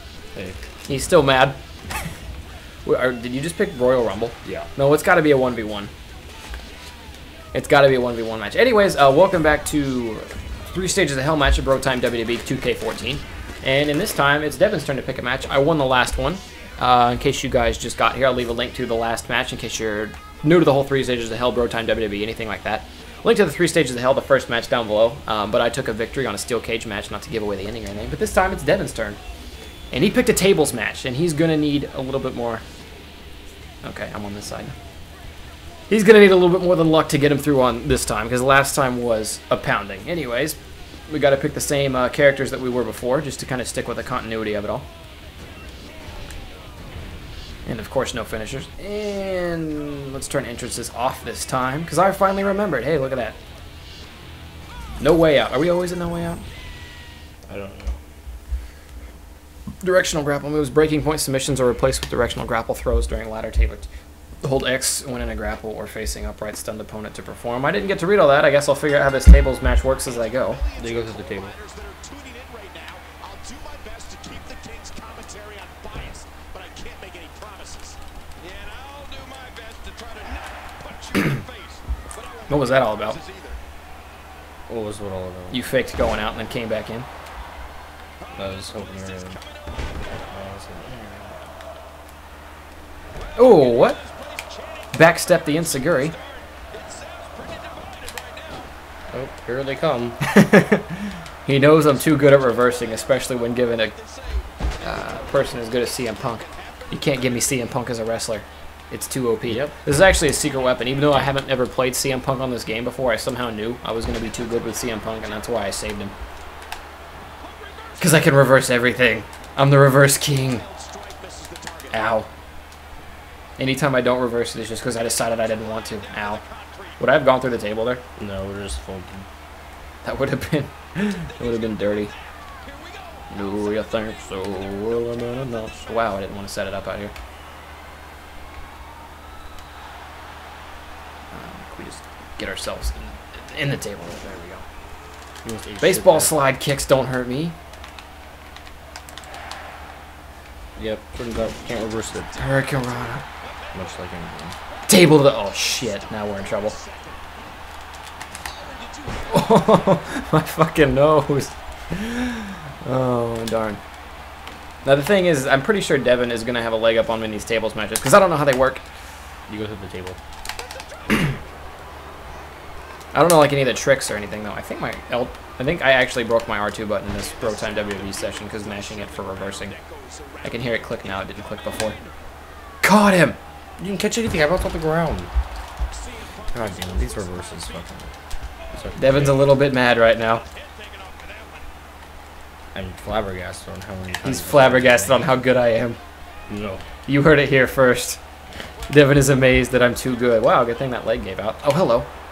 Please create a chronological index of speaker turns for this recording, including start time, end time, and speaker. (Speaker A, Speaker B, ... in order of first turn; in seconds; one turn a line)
Speaker A: 0.9-1.6
Speaker A: 2.8-5.9
Speaker A: 7.5-29.2
Speaker A: 29.9-32.6
Speaker A: 33.8-34.7
Speaker A: 35.9-40.6
Speaker A: 41.1-44.9
Speaker A: 47.6-53.4
Speaker A: 55.0-56.4
Speaker B: 57.5-58.0
Speaker A: 59.8-63.9
Speaker A: 64.4-70.6
Speaker C: 70.3-83.6
Speaker B: 70.7-71.5
Speaker A: 82.5-83.2
Speaker B: 84.7-85.6
Speaker A: 85.5-87.1
Speaker B: 88.3-89.4
Speaker C: 89.1-89.4
Speaker B: 90.0-91.4
Speaker C: 93.3-95.1
Speaker A: 93.3-94.0
Speaker A: 94.9-96.1
Speaker C: 95.9-98.6
Speaker B: 99.1-100.2
Speaker A: 100.3-103.9
Speaker C: 104.0-104.5
Speaker A: 104.8-116.1
Speaker C: 106.4-107.5
Speaker B: 109.5-109.7
Speaker C: 117.4-118.4
Speaker A: 118.0-120.6
Speaker C: 120.4-121.9
Speaker A: 121.9-122.3
Speaker A: 123.6-126.4
Speaker C: 126.1-127.0
Speaker A: 127.0-128.0
Speaker B: 128.2-129.3
Speaker A: 130.0-132.1
Speaker C: 131.4-132.1
Speaker C: 132.6-133.5
Speaker A: 133.3-137.1
Speaker A: 141.3-144.6
Speaker B: 145.4-146.3
Speaker A: 145.8-147.5
Speaker B: 150.8-152.3
Speaker A: 152.3-153.2
Speaker C: 153.4-153.7
Speaker B: 153.7-154.6
Speaker C: 154.7-157.2
Speaker A: 154.9-156.8
Speaker C: 158.6-159.4
Speaker A: 159.3-163.8
Speaker A: 164.8-168.8
Speaker B: 169.5-170.2
Speaker C: 170.6-171.2
Speaker A: 173.1-179.7
Speaker C: 177.2-182.1
Speaker A: 180.4-182.0
Speaker A: 182.8-183.4
Speaker B: 183.8-185.3
Speaker C: 185.9-187.3
Speaker B: 186.5-188.1
Speaker B: 188.7-189.5
Speaker A: 188.9-190.4
Speaker C: 190.7-191.3
Speaker B: 192.7-195.3
Speaker A: 194.2-196.0
Speaker B: 196.5-196.8
Speaker A: 197.1-198.2
Speaker A: 198.9-202.1